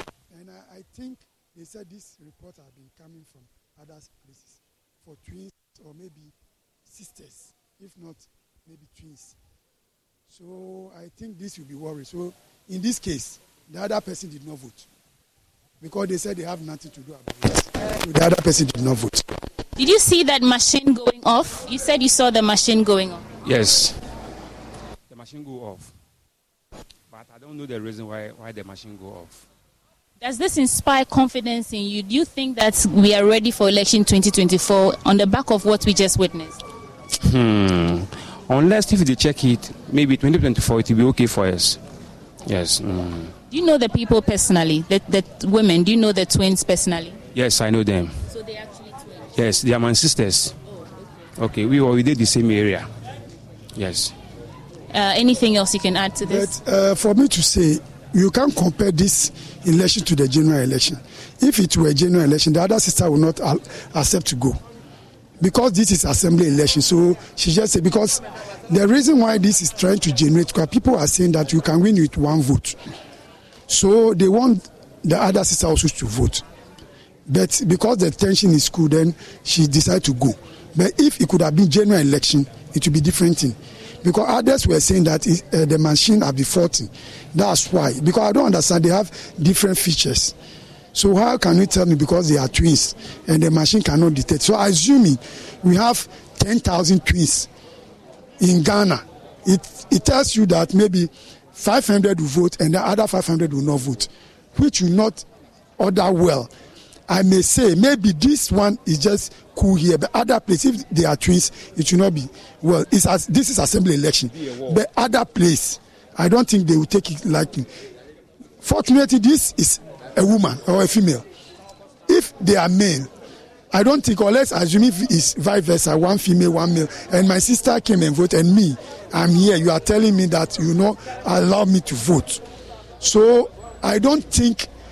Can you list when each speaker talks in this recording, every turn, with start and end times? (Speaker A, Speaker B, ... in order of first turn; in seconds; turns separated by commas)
Speaker A: 0.3-6.3, Speaker A: 6.9-9.3, Speaker A: 10.3-14.8, Speaker A: 15.8-19.4, Speaker B: 19.8-23.2, Speaker C: 23.4-24.0, Speaker C: 25.1-25.9, Speaker C: 27.1-29.4, Speaker B: 30.2-36.6, Speaker C: 37.2-41.8, Speaker C: 42.4-43.3, Speaker B: 43.5-47.2, Speaker C: 47.3-48.2, Speaker B: 48.3-49.1, Speaker C: 49.3-50.6, Speaker C: 51.4-52.9, Speaker C: 53.7-54.1, Speaker B: 54.9-56.5, Speaker A: 56.2-64.6, Speaker A: 65.4-72.8, Speaker A: 73.7-76.4, Speaker A: 77.3-90.3, Speaker A: 90.9-97.5, Speaker A: 98.4-105.2, Speaker A: 105.8-106.5, Speaker A: 107.1-117.7, Speaker A: 118.6-121.2, Speaker A: 122.1-123.1, Speaker A: 123.7-132.4, Speaker A: 133.0-134.7